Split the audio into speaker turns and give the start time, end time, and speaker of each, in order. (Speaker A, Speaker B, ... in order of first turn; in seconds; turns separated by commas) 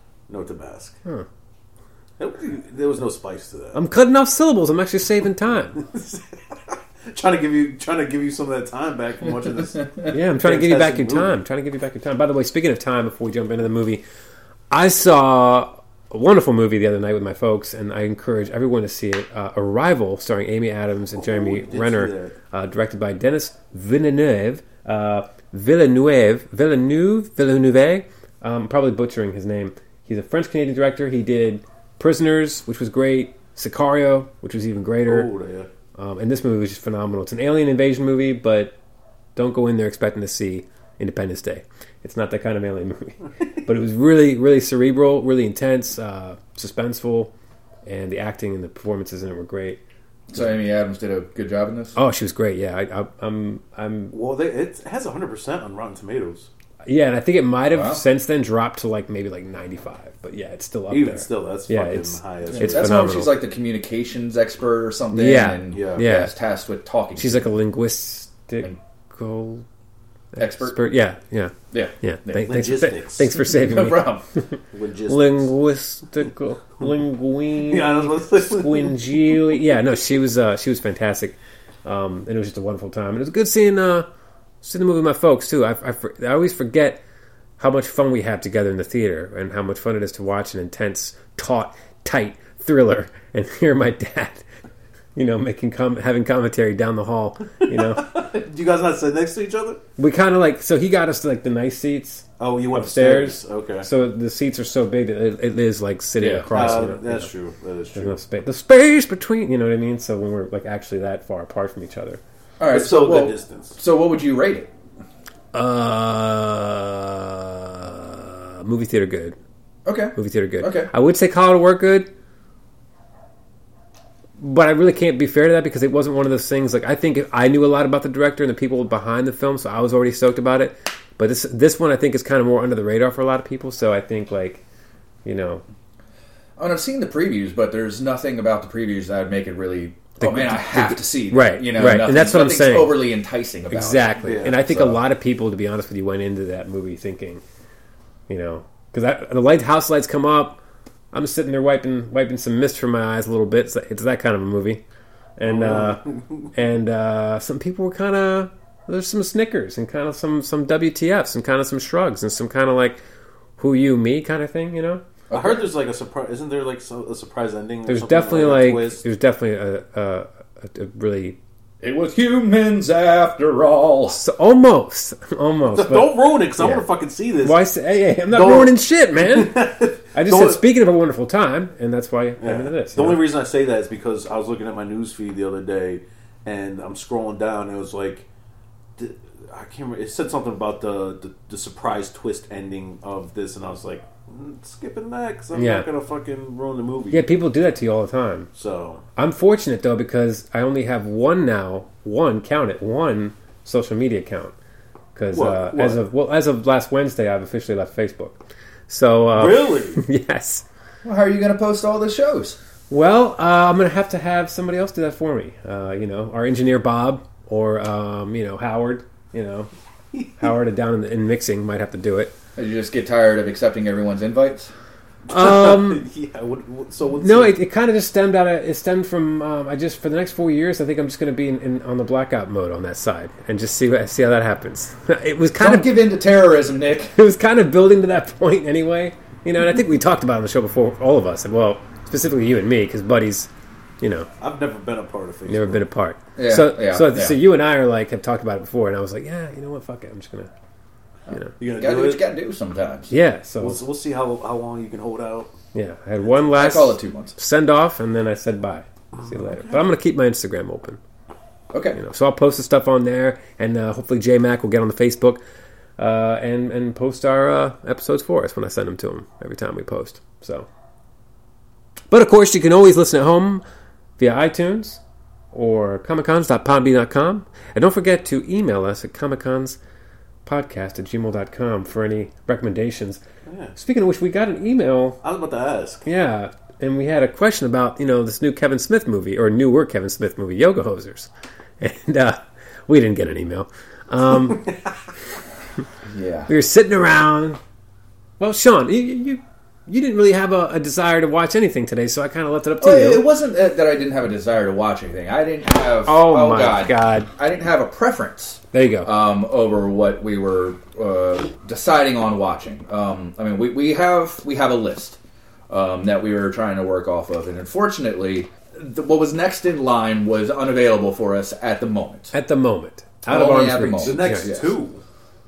Speaker A: 0.3-1.0, Speaker A: 2.2-3.8, Speaker B: 3.7-5.8, Speaker A: 5.8-11.4, Speaker B: 10.1-14.0, Speaker B: 14.7-35.3, Speaker A: 21.1-22.4, Speaker A: 35.1-35.7, Speaker B: 36.0-38.8, Speaker B: 39.4-47.3, Speaker B: 47.9-49.8, Speaker C: 50.3-52.0, Speaker B: 52.0-54.2, Speaker A: 54.1-56.5, Speaker B: 56.9-63.4, Speaker C: 57.7-58.0, Speaker A: 60.9-62.9, Speaker C: 62.5-67.5, Speaker B: 65.1-66.3, Speaker A: 65.7-66.1, Speaker B: 67.2-69.7, Speaker B: 70.4-74.1, Speaker C: 70.4-70.8, Speaker C: 71.7-72.5, Speaker A: 72.5-73.3, Speaker C: 73.4-74.2, Speaker A: 74.7-75.5, Speaker B: 75.1-84.1, Speaker A: 77.6-79.8, Speaker B: 84.6-87.0, Speaker B: 87.6-94.5, Speaker B: 95.2-98.1, Speaker A: 97.7-99.8, Speaker B: 100.0-107.3, Speaker A: 102.4-103.9, Speaker C: 106.2-106.8, Speaker A: 106.5-108.2, Speaker B: 108.0-112.2, Speaker C: 112.6-114.7, Speaker A: 112.7-113.8, Speaker B: 115.5-119.4, Speaker C: 119.9-120.9, Speaker B: 120.2-122.1, Speaker B: 124.4-134.6, Speaker B: 135.2-135.6, Speaker C: 136.6-145.0, Speaker B: 140.2-143.0, Speaker B: 143.7-147.4, Speaker A: 144.2-144.6, Speaker B: 148.3-150.6, Speaker B: 151.1-154.8, Speaker B: 155.4-163.0, Speaker A: 155.5-156.4, Speaker B: 163.6-165.0, Speaker C: 165.3-165.7, Speaker A: 165.3-169.0, Speaker B: 167.9-171.4, Speaker C: 171.8-174.2, Speaker B: 174.1-176.9, Speaker A: 175.7-177.6, Speaker B: 177.4-183.2, Speaker A: 178.3-180.6, Speaker A: 182.4-188.3, Speaker A: 189.0-197.3, Speaker B: 195.6-195.9, Speaker B: 197.1-198.5, Speaker A: 198.6-199.0, Speaker B: 199.2-204.5, Speaker B: 205.2-210.7, Speaker A: 205.3-206.0, Speaker A: 209.3-210.0, Speaker C: 211.0-212.6, Speaker B: 212.9-219.7, Speaker B: 220.4-222.3, Speaker C: 222.6-224.7, Speaker B: 225.3-226.1, Speaker A: 225.3-227.6, Speaker B: 227.2-235.9, Speaker C: 235.6-237.1, Speaker B: 237.2-243.5, Speaker B: 244.0-244.3, Speaker A: 244.4-245.8, Speaker B: 245.5-250.5, Speaker C: 246.4-247.4, Speaker C: 251.3-253.1, Speaker A: 251.6-252.2, Speaker B: 253.1-253.8, Speaker A: 253.6-255.5, Speaker B: 255.7-261.0, Speaker C: 256.5-257.4, Speaker A: 259.4-259.8, Speaker C: 261.7-262.0, Speaker B: 261.9-265.4, Speaker B: 266.0-270.7, Speaker B: 272.1-273.6, Speaker B: 274.2-275.0, Speaker B: 275.5-279.8, Speaker B: 280.5-283.2, Speaker A: 283.5-283.8, Speaker B: 283.8-285.2, Speaker A: 285.2-286.1, Speaker B: 286.1-294.7, Speaker C: 296.1-296.5, Speaker B: 296.5-297.6, Speaker B: 298.4-303.3, Speaker C: 302.8-315.2, Speaker B: 306.1-307.3, Speaker B: 308.7-309.1, Speaker C: 315.7-322.3, Speaker B: 322.3-324.5, Speaker C: 323.3-324.7, Speaker A: 324.0-325.0